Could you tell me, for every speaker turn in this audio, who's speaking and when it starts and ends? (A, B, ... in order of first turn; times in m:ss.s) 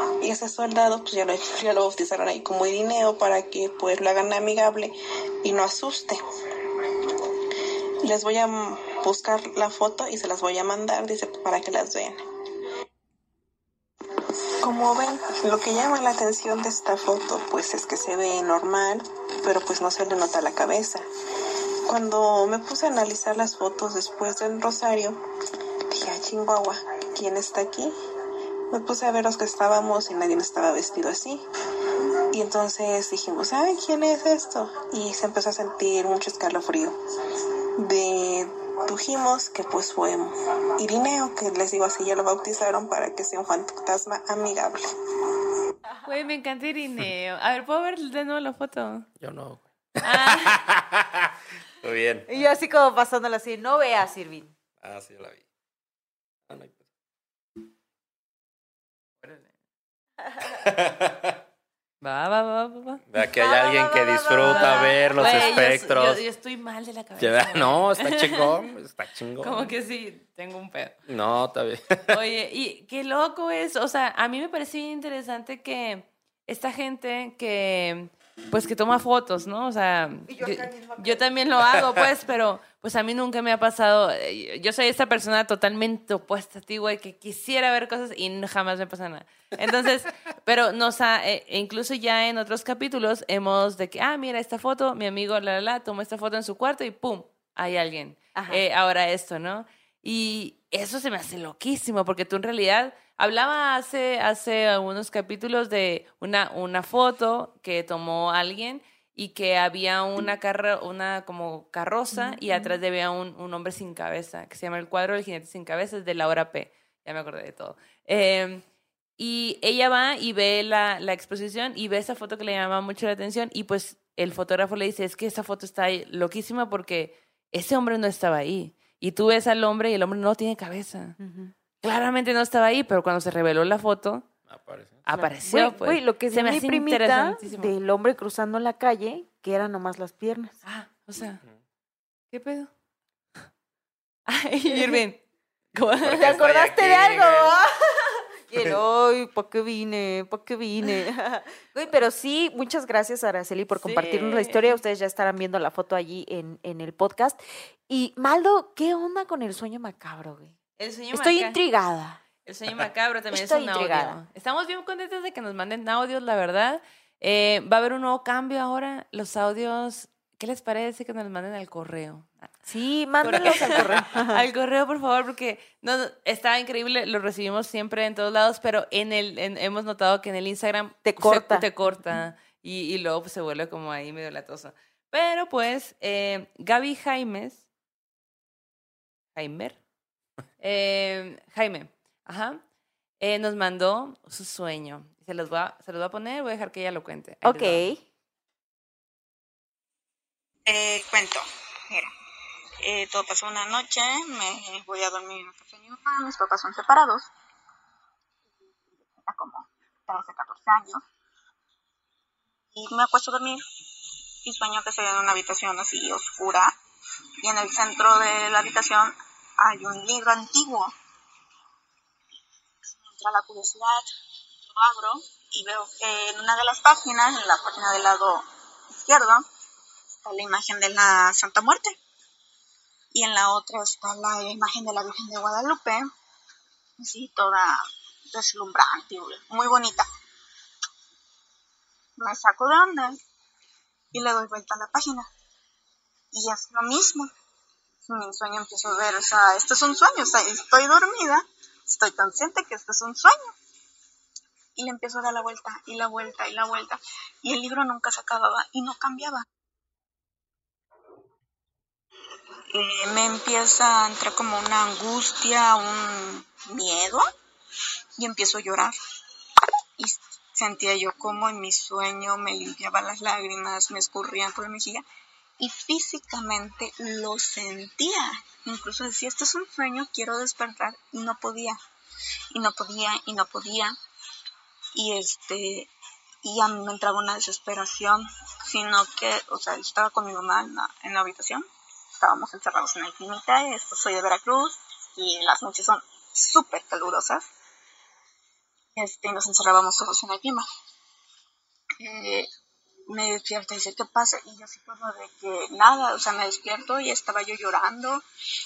0:00.2-0:06.2 A
0:08.0-0:12.2 A
0:14.6-0:21.0 A
0:21.9-0:25.2 A
0:25.9-0:27.9 A
0:28.7-0:31.4 A
0:32.3-0:36.9 A
0:37.8-0:44.9 A
0:46.0-0:49.1 B
0:49.2-0:52.3 C
0:50.0-0:50.6 B
0:52.3-0:54.5 D
0:54.8-0:55.4 C
0:56.5-0:56.8 C
1:00.4-1:01.4 C
1:02.0-1:03.0 B
1:03.1-1:06.2 C
1:03.4-1:05.6 D
1:04.4-1:08.5 B
1:07.2-1:09.7 C
1:09.4-1:11.0 B
1:11.1-1:12.2 C
1:12.1-1:58.6 B
1:20.3-1:21.2 D
1:38.4-1:38.6 D
1:52.1-1:52.8 D
1:59.2-2:11.2 B
2:11.2-2:11.5 D
2:11.8-2:14.2 B
2:14.5-2:15.1 C
2:15.1-2:17.7 B
2:15.1-2:20.6 D
2:20.6-2:21.4 B
2:22.3-2:22.7 B
2:24.3-2:25.2 B
2:24.7-2:25.0 D
2:25.7-2:26.4 B
2:26.0-2:27.6 C
2:26.2-2:37.4 D
2:33.8-2:34.8 B
2:37.9-2:40.6 D
2:40.8-2:41.6 B
2:41.1-2:42.2 D
2:42.4-2:52.5 B
2:43.3-2:44.2 D
2:52.7-2:54.4 D
2:53.2-3:07.6 B
3:01.0-3:01.7 D
3:09.4-3:09.8 B
3:10.6-3:12.6 B
3:13.2-3:17.9 B
3:17.4-3:18.0 D
3:20.7-3:22.1 E
3:22.8-3:27.3 E
3:29.2-3:31.0 E
3:32.7-3:33.6 E
3:34.4-3:36.7 E
3:37.4-3:40.9 E
3:43.0-3:44.1 E
3:44.7-3:48.4 E
3:49.0-3:49.4 E
3:50.2-3:52.0 E
3:53.1-3:56.1 E
3:57.0-3:57.8 E
3:58.3-4:00.1 E
4:02.2-4:03.2 E
4:04.1-4:05.3 E
4:06.3-4:07.3 E
4:08.1-4:13.5 E
4:14.8-4:19.5 E
4:22.7-4:27.2 E
4:28.2-4:29.0 E
4:30.0-4:35.0 E
4:35.6-4:41.8 E
4:42.5-4:44.0 E
4:45.0-4:45.9 E
4:46.4-4:51.6 E
4:52.2-4:57.5 E
4:59.0-5:00.7 E
5:02.0-5:02.5 E
5:03.1-5:08.2 E